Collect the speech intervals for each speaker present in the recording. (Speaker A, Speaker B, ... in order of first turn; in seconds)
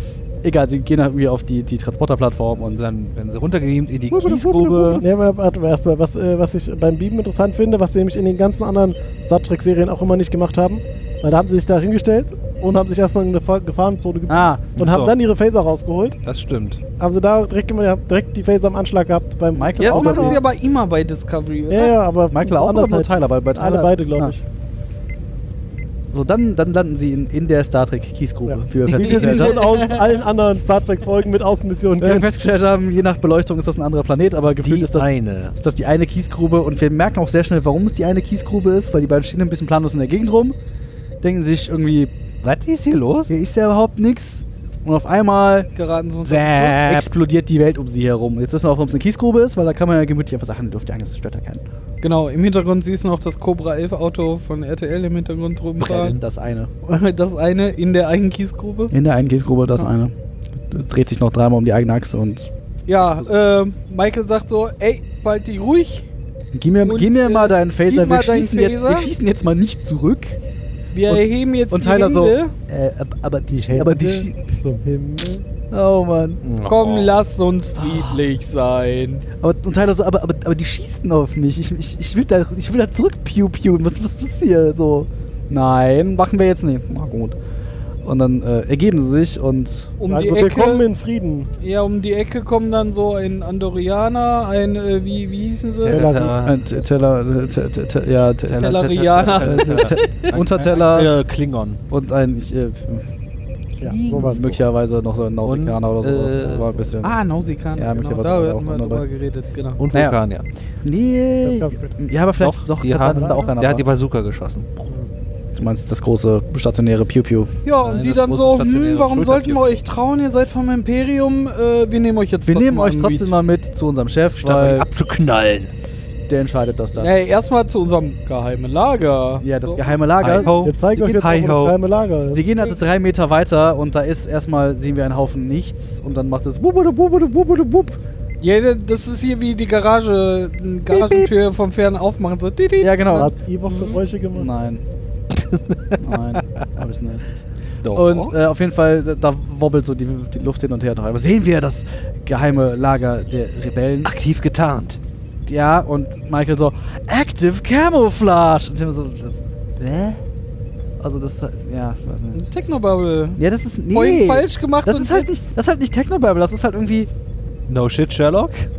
Speaker A: 0.4-2.8, 4.1-5.0, 14.3-14.6, 19.5-20.4, 22.3-24.3, 26.1-29.6, 32.0-40.5, 41.2-42.1, 43.3-45.7, 46.8-51.6, 56.1-56.7, 58.9-60.1, 60.7-62.5, 63.0-63.3, 66.5-70.4, 71.1-74.4, 75.7-76.4, 77.8-78.2, 79.4-87.4, 88.0-89.9, 96.4-101.1, 101.9-103.1, 104.1-107.2, 107.8-109.0, 109.9-110.2, 110.8-113.8, 115.5-117.5, 122.5-124.9, 126.3-127.1, 129.4-130.6, 132.3-138.0, 142.8-143.3, 144.3-144.8, 146.0-147.2, 147.9-154.1, 155.4-160.2, 161.0-162.5, 163.4-167.1
Speaker B: 2.7-5.0, 14.7-15.1, 16.2-16.8, 34.6-35.5, 42.4-43.4, 46.2-47.1, 55.8-56.2, 76.4-77.2, 95.8-96.6, 98.4-101.8, 103.8-104.6, 105.4-106.7, 109.8-110.5, 112.4-114.9, 117.8-119.8, 124.4-125.7, 130.2-131.8, 140.9-141.3, 145.3-146.4, 147.8-148.3, 154.0-155.0, 167.7-168.7
Speaker C: 5.0-16.2, 17.0-20.4, 21.7-24.4, 28.4-32.3, 73.5-75.4, 90.1-91.5, 95.9-96.4, 103.8-104.5, 111.4-112.0, 113.1-113.5, 130.5-132.4, 143.1-144.5
Speaker D: 19.8-22.0, 28.9-30.2, 45.8-46.8, 52.0-56.1, 56.8-58.9, 62.9-66.0, 66.8-69.1, 70.9-72.5, 76.7-79.2, 90.0-90.8, 91.6-96.1, 98.6-100.3, 107.0-109.8, 117.6-123.3, 127.0-130.0, 138.4-144.0, 162.3-163.4, 163.9-165.5